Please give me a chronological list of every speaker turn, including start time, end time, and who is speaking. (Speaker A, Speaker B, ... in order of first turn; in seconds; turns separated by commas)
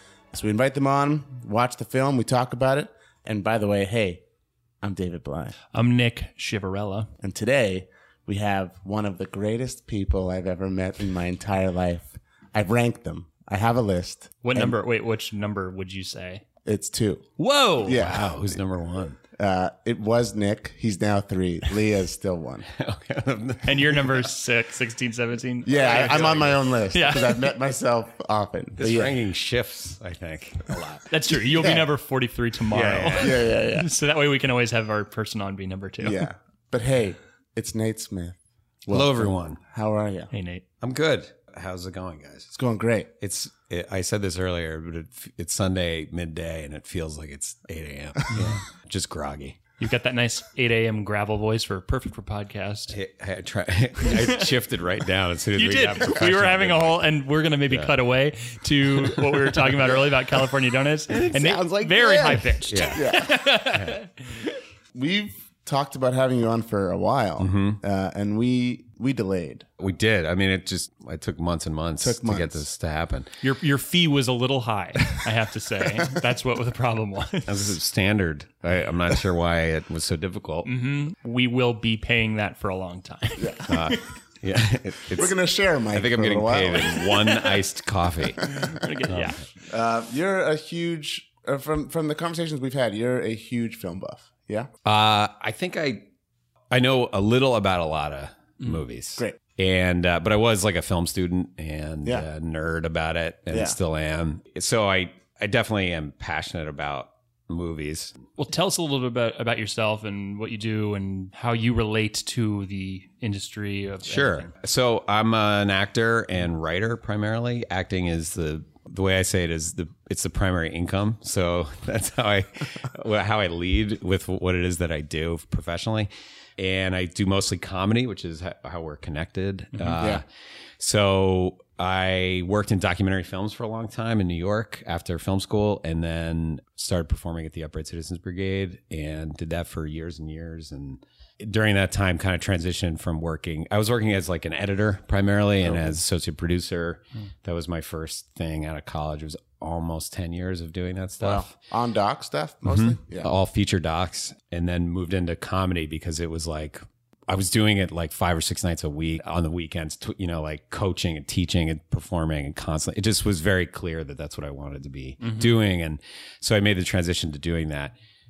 Speaker A: 0.3-4.2, Speaker A: 4.8-5.5, Speaker B: 5.7-7.1, Speaker A: 7.2-14.7, Speaker B: 14.4-16.4, Speaker A: 16.6-17.3, Speaker B: 17.4-18.1, Speaker A: 17.8-18.4, Speaker C: 17.9-19.2, Speaker A: 19.4-22.7, Speaker C: 22.6-24.3, Speaker B: 23.6-27.5, Speaker A: 25.6-29.1, Speaker C: 25.8-26.4, Speaker C: 28.8-31.0, Speaker B: 31.1-36.2, Speaker A: 31.3-31.9, Speaker C: 32.7-33.5, Speaker A: 33.1-33.9, Speaker A: 36.0-40.3, Speaker C: 38.9-39.6, Speaker B: 40.3-40.6, Speaker C: 40.8-42.5, Speaker A: 42.5-43.1, Speaker C: 43.2-49.6, Speaker B: 48.3-48.6, Speaker B: 49.8-53.0, Speaker C: 52.9-57.0, Speaker B: 54.0-54.5, Speaker B: 55.5-64.5, Speaker C: 61.1-63.0, Speaker A: 62.9-63.4, Speaker C: 63.7-64.0, Speaker A: 64.9-69.7, Speaker C: 67.4-67.8, Speaker C: 69.8-73.3, Speaker A: 72.0-72.6, Speaker B: 73.4-77.7, Speaker C: 77.5-80.7, Speaker B: 80.6-84.0, Speaker A: 83.4-83.8, Speaker C: 83.7-85.4, Speaker A: 85.2-87.1, Speaker C: 85.9-88.5, Speaker A: 88.4-88.8, Speaker B: 88.4-89.5, Speaker C: 89.1-89.4, Speaker A: 89.7-94.7, Speaker C: 94.8-96.1, Speaker C: 96.7-108.2, Speaker A: 103.5-103.8, Speaker B: 108.4-114.5, Speaker C: 114.0-130.2, Speaker B: 129.7-130.0, Speaker C: 130.8-151.5, Speaker A: 145.6-146.0, Speaker A: 151.2-153.3, Speaker C: 152.6-167.9, Speaker B: 165.2-165.6